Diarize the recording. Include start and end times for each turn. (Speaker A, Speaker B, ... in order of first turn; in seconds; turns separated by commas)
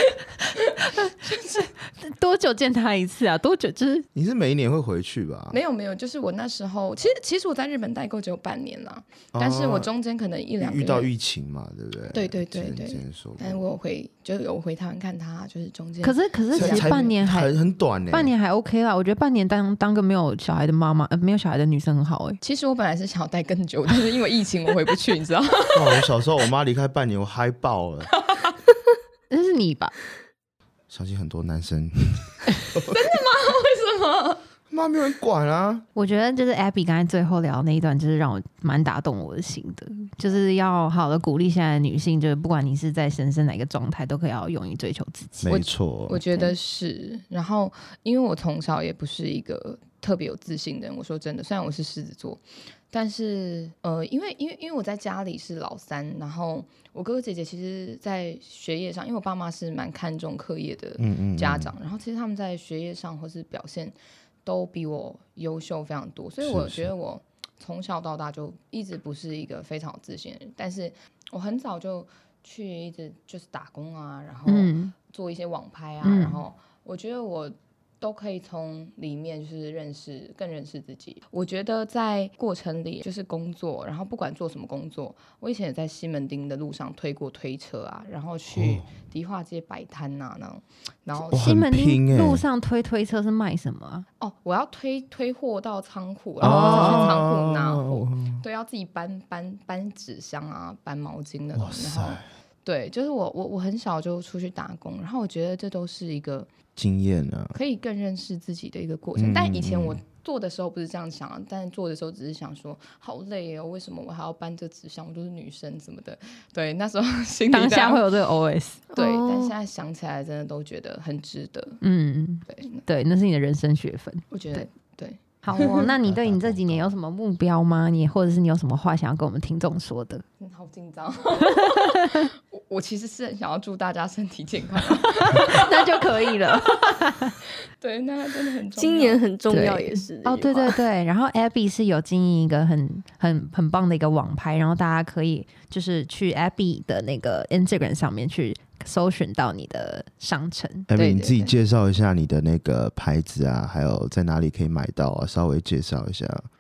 Speaker A: 0.6-1.7, Speaker B: 0.8-1.1, Speaker B: 2.0-4.1, Speaker C: 4.1-5.6, Speaker A: 5.5-11.1, Speaker C: 9.3-9.9, Speaker C: 10.6-13.6, Speaker A: 12.1-17.1, Speaker B: 16.0-17.5, Speaker C: 16.5-18.3, Speaker B: 18.1-22.4, Speaker A: 22.4-26.1, Speaker C: 25.7-28.1, Speaker A: 28.2-28.5, Speaker B: 29.3-29.9, Speaker C: 30.9-33.0, Speaker A: 32.9-34.4, Speaker C: 34.7-35.9, Speaker B: 36.0-45.5, Speaker C: 45.4-46.2, Speaker A: 45.5-91.5, Speaker C: 61.0-61.7, Speaker C: 66.4-66.9, Speaker B: 74.5-74.9, Speaker B: 76.0-76.4, Speaker C: 88.5-88.9, Speaker C: 91.3-92.4, Speaker B: 91.3-94.0, Speaker A: 94.2-106.5, Speaker C: 96.4-98.4, Speaker B: 96.5-97.0, Speaker C: 101.5-102.3, Speaker C: 106.8-107.6, Speaker A: 107.5-118.0, Speaker C: 109.2-110.0, Speaker B: 117.5-118.8, Speaker D: 118.9-119.5, Speaker A: 119.0-121.8, Speaker B: 121.8-124.7, Speaker A: 122.5-122.9, Speaker A: 124.3-125.9, Speaker B: 125.4-130.2, Speaker C: 126.0-127.0, Speaker A: 130.4-137.0, Speaker B: 131.4-132.3, Speaker B: 135.1-137.4, Speaker A: 137.8-139.2, Speaker D: 138.8-140.8, Speaker B: 139.5-150.9, Speaker C: 150.9-156.5, Speaker A: 150.9-151.5